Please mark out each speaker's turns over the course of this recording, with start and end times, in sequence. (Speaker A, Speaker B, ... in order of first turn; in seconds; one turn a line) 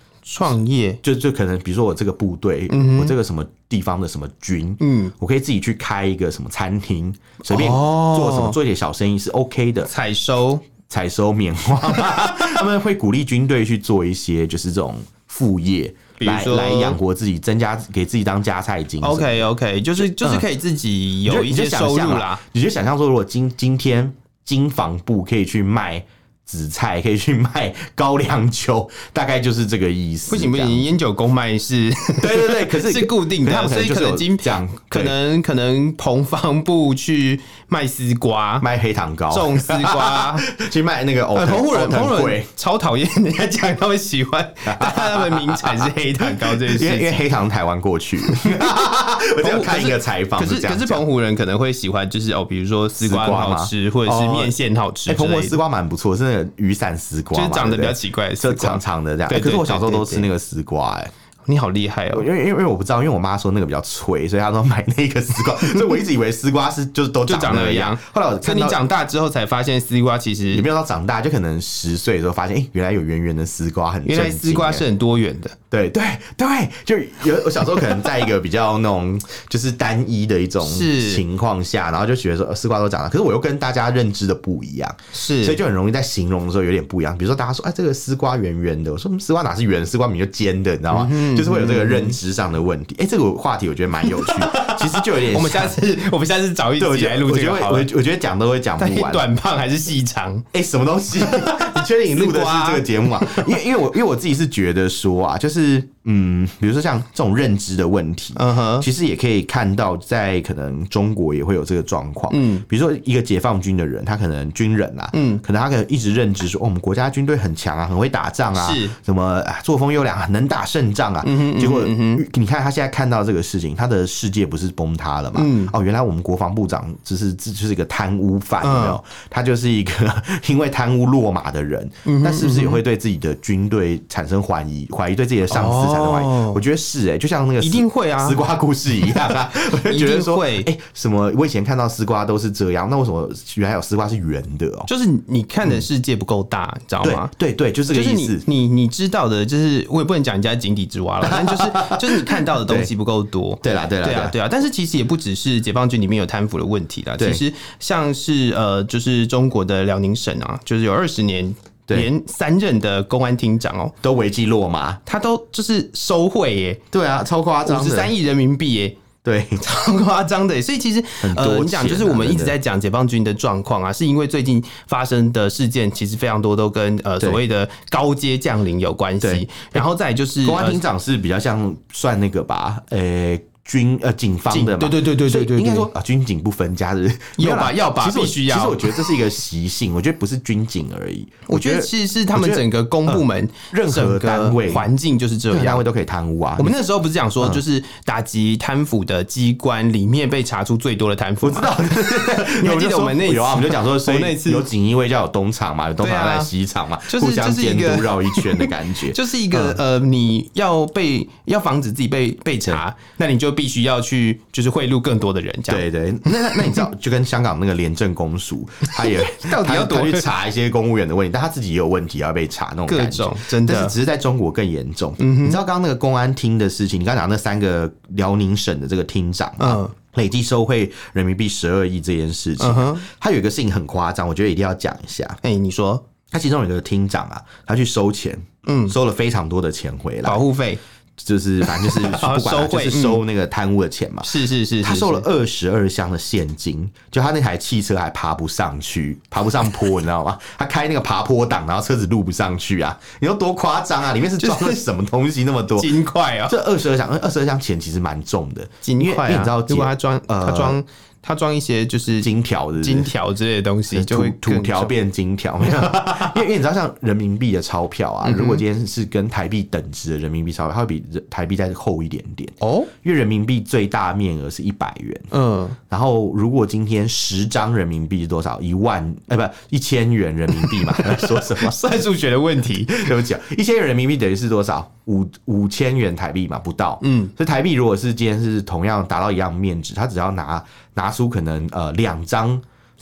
Speaker A: 0.2-1.0
Speaker B: 1.0-9.9
Speaker A: 2.7-3.1
Speaker A: 4.8-5.1
Speaker A: 7.5-8.6
Speaker A: 9.9-10.6
Speaker B: 10.9-19.5
Speaker A: 11.9-12.5
Speaker A: 16.2-17.0
Speaker A: 19.0-22.4
Speaker B: 20.0-20.4
Speaker B: 21.2-30.9
Speaker A: 30.3-38.6
Speaker B: 32.2-35.1
Speaker B: 38.6-42.5
Speaker A: 39.3-40.5
Speaker A: 41.3-47.2
Speaker B: 44.6-51.0
Speaker A: 48.3-48.8
Speaker A: 49.4-55.6
Speaker B: 53.0-54.5
Speaker B: 55.1-61.1
Speaker A: 57.3-60.3
Speaker A: 61.5-62.2
Speaker B: 62.1-68.8
Speaker A: 67.2-70.7
Speaker B: 70.5-74.9
Speaker A: 74.1-75.6
Speaker B: 75.7-95.8
Speaker A: 80.6-81.2
Speaker A: 85.1-85.6
Speaker A: 90.9-92.2
Speaker A: 94.0-97.9
Speaker B: 96.8-99.3
Speaker A: 98.8-100.5
Speaker B: 100.5-144.9
Speaker A: 101.1-103.6
Speaker A: 108.4-108.9
Speaker A: 112.3-112.6
Speaker A: 115.1-115.4
Speaker A: 118.5-119.0
Speaker A: 121.2-122.2
Speaker A: 125.3-125.7
Speaker A: 128.6-129.0
Speaker A: 132.0-132.8
Speaker A: 135.5-136.6
Speaker A: 137.6-138.4
Speaker A: 139.0-140.7
Speaker A: 144.9-147.3
Speaker B: 147.0-148.4
Speaker A: 147.9-163.9
Speaker B: 151.2-152.9
Speaker B: 153.6-154.3
Speaker B: 157.2-157.4
Speaker B: 164.0-165.0
Speaker A: 165.1-166.8
Speaker B: 166.9-168.1
Speaker A: 167.6-169.0
Speaker B: 169.2-169.6
Speaker A: 169.6-180.8
Speaker B: 171.2-172.6
Speaker B: 179.2-179.8
Speaker B: 180.4-194.9
Speaker A: 184.5-185.9
Speaker A: 187.4-189.2
Speaker A: 191.5-195.8
Speaker B: 195.5-196.7
Speaker A: 196.6-204.7
Speaker B: 201.4-209.8
Speaker A: 206.0-206.5
Speaker A: 207.1-216.9
Speaker B: 215.7-235.4
Speaker A: 218.9-220.3
Speaker A: 222.9-223.9
Speaker A: 225.2-225.6
Speaker A: 229.6-229.9
Speaker A: 232.6-233.0
Speaker A: 235.4-236.0
Speaker B: 236.3-240.4
Speaker A: 238.7-238.9
Speaker A: 240.2-240.8
Speaker B: 241.2-244.3
Speaker A: 241.6-243.2
Speaker A: 244.2-245.2
Speaker B: 244.8-255.9
Speaker A: 254.4-254.8
Speaker A: 255.8-256.6
Speaker B: 256.4-260.8
Speaker A: 258.8-264.9
Speaker B: 262.2-263.1
Speaker B: 263.9-275.3
Speaker A: 265.6-266.4
Speaker A: 268.2-268.6
Speaker A: 272.6-272.9
Speaker A: 275.3-275.8
Speaker B: 275.9-282.0
Speaker A: 280.6-283.1
Speaker B: 282.8-292.6
Speaker A: 287.0-287.3